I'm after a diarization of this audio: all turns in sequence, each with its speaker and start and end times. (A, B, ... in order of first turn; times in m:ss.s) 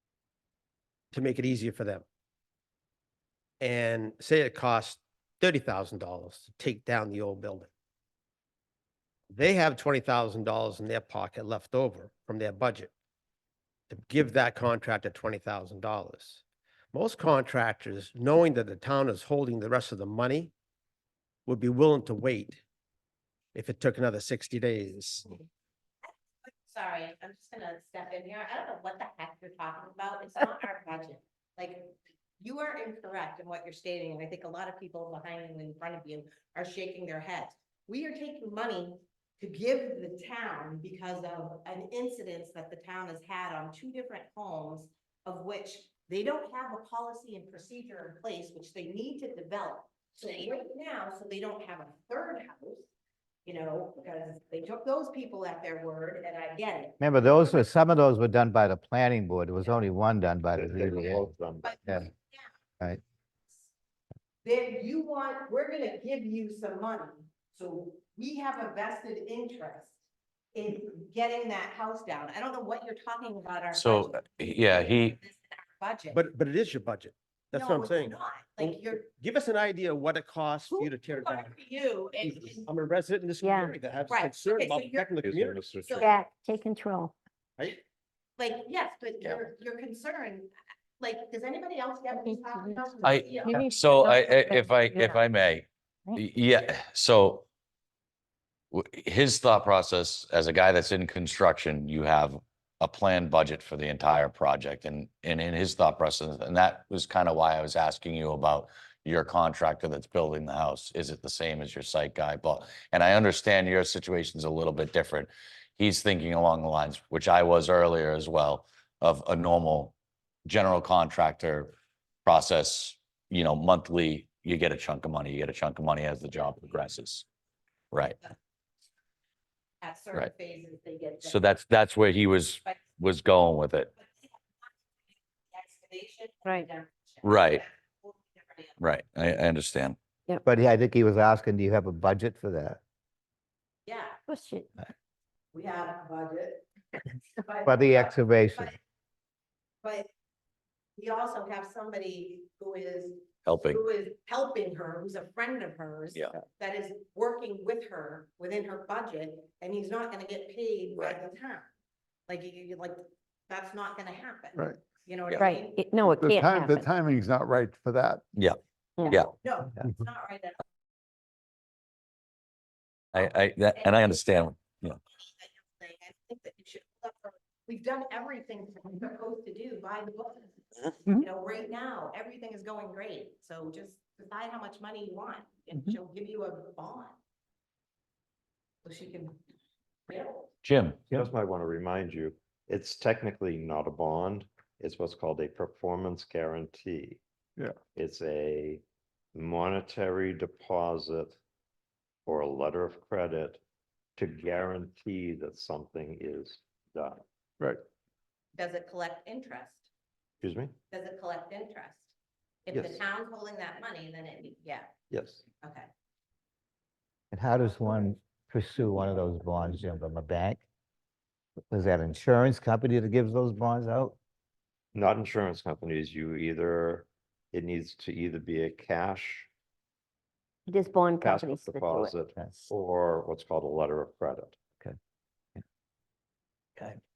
0:01.1-0:02.0 A
0:03.6-0:07.7 A
0:09.3-0:12.9 A
0:13.9-0:20.5 A
0:21.4-0:22.6 A
0:23.5-0:25.3 A
0:26.1-0:52.9 B
0:53.4-0:57.7 B
0:57.0-1:01.3 C
1:00.5-1:02.0 D
1:01.6-1:02.6 B
1:04.4-1:10.0 B
1:10.5-1:16.2 B
1:13.7-1:15.2 E
1:16.1-1:21.6 A
1:17.5-1:19.1 B
1:20.7-1:22.6 B
1:22.2-1:26.0 A
1:23.4-1:23.8 F
1:24.1-1:25.1 B
1:25.2-1:26.0 D
1:25.8-1:26.2 B
1:26.0-1:27.1 F
1:28.4-1:33.6 B
1:32.3-1:32.8 F
1:33.0-1:37.4 E
1:33.5-1:33.8 F
1:38.7-1:59.9 E
2:00.4-2:01.7 E
2:02.2-2:07.2 E
2:06.3-2:06.7 B
2:07.9-2:08.2 E
2:08.0-2:08.3 B
2:09.8-2:11.5 B
2:11.2-2:13.9 E
2:13.9-2:18.9 B
2:17.2-2:17.6 E
2:18.8-2:20.0 E
2:20.4-2:22.8 C
2:23.9-2:24.2 B
2:24.3-2:24.7 F
2:25.5-2:26.7 B
2:27.4-2:28.8 B
2:27.6-2:28.8 C
2:29.8-2:30.1 B
2:31.0-2:41.7 B
2:33.4-2:33.8 E
2:42.3-2:46.1 B
2:44.6-2:44.8 G
2:45.3-2:46.9 F
2:46.2-2:48.2 G
2:48.3-2:49.3 E
2:49.0-2:49.2 F
2:49.3-2:50.6 B
2:53.1-2:55.0 E
2:53.8-2:54.1 B
2:55.2-3:07.2 B
3:08.8-3:09.4 B
3:10.1-3:10.5 B
3:10.6-3:11.0 E
3:11.1-3:17.2 D
3:17.9-3:18.8 D
3:19.3-3:21.4 D
3:22.3-3:23.6 D
3:24.2-3:27.2 D
3:28.6-3:29.9 B
3:30.4-3:30.8 D
3:30.9-3:32.1 B
3:32.7-3:34.9 B
3:32.7-3:33.0 D
3:35.1-3:35.4 D
3:35.6-3:35.9 B
3:37.3-3:40.6 C
3:41.7-3:44.2 C
3:44.9-3:49.5 D
3:50.7-3:52.2 F
3:51.2-3:54.6 D